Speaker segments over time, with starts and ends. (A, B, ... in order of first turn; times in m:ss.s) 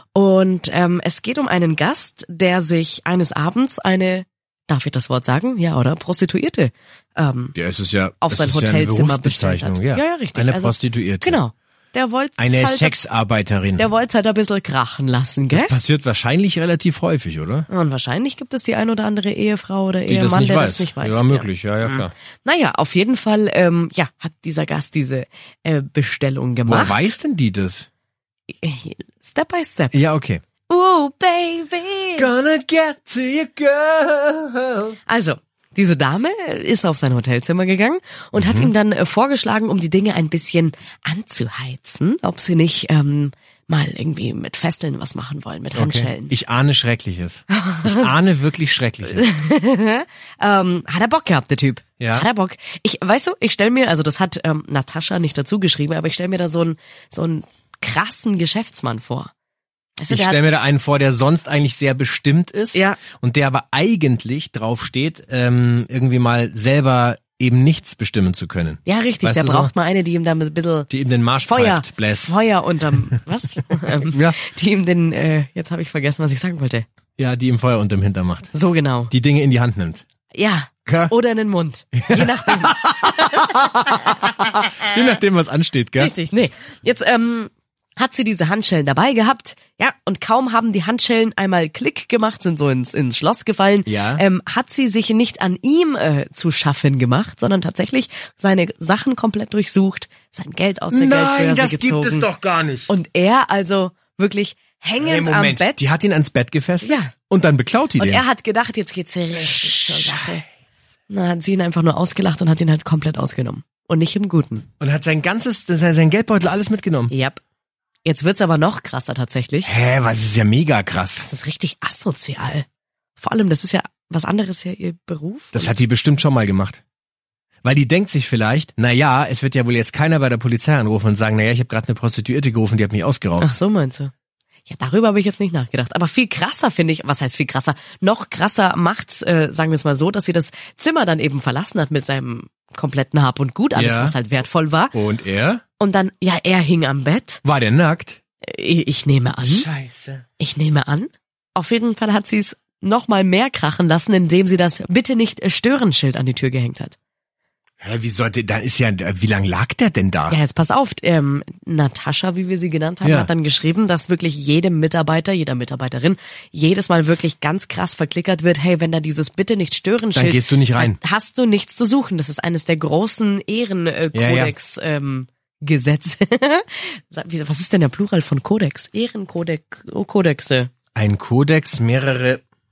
0:00.1-0:07.6 A
0:07.6-0:11.4 B
0:08.2-0:13.0 A
0:12.4-0:13.9 B
0:13.8-0:15.7 A
0:15.5-0:17.7 B
0:17.7-0:27.2 A
0:20.1-0:22.1 B
0:26.7-0:27.9 B
0:28.6-0:30.0 A
0:29.9-0:30.4 B
0:30.7-0:32.3 A
0:32.2-0:35.0 B
0:35.1-0:46.3 A
0:38.4-0:38.7 B
0:45.7-0:49.3 B
0:47.6-0:48.0 A
0:49.2-0:59.3 A
0:52.0-0:52.3 B
1:00.0-1:00.4 A
1:00.1-1:09.7 B
1:02.7-1:03.0 A
1:08.9-1:10.9 A
1:10.9-1:12.3 B
1:11.5-1:16.9 A
1:14.0-1:14.4 B
1:17.2-1:18.5 B
1:18.5-1:19.1 A
1:19.1-1:20.0 B
1:20.3-1:25.0 A
1:20.9-1:21.1 B
1:22.0-1:26.1 B
1:26.0-1:42.3 A
1:33.9-1:34.2 B
1:40.9-1:42.9 B
1:42.9-1:45.9 A
1:45.0-1:48.2 B
1:46.8-1:47.1 A
1:48.0-1:50.4 A
1:49.4-1:50.4 B
1:51.1-1:54.7 A
1:54.8-1:57.1 B
1:57.1-1:57.4 A
1:58.0-1:59.7 A
1:59.6-2:01.3 B
2:01.2-2:02.7 A
2:03.2-2:05.8 A
2:05.5-2:06.8 B
2:07.6-2:13.5 B
2:13.4-2:14.1 A
2:14.7-2:25.0 A
2:23.8-2:24.2 B
2:24.9-2:25.6 B
2:25.8-2:27.4 A
2:27.4-2:28.2 B
2:28.4-2:29.7 A
2:29.4-2:30.2 B
2:30.4-2:37.0 A
2:37.8-2:40.4 B
2:40.3-3:00.7 A
2:43.0-2:43.3 B
2:50.1-2:51.0 B
2:54.1-2:54.5 B
3:01.0-3:02.4 B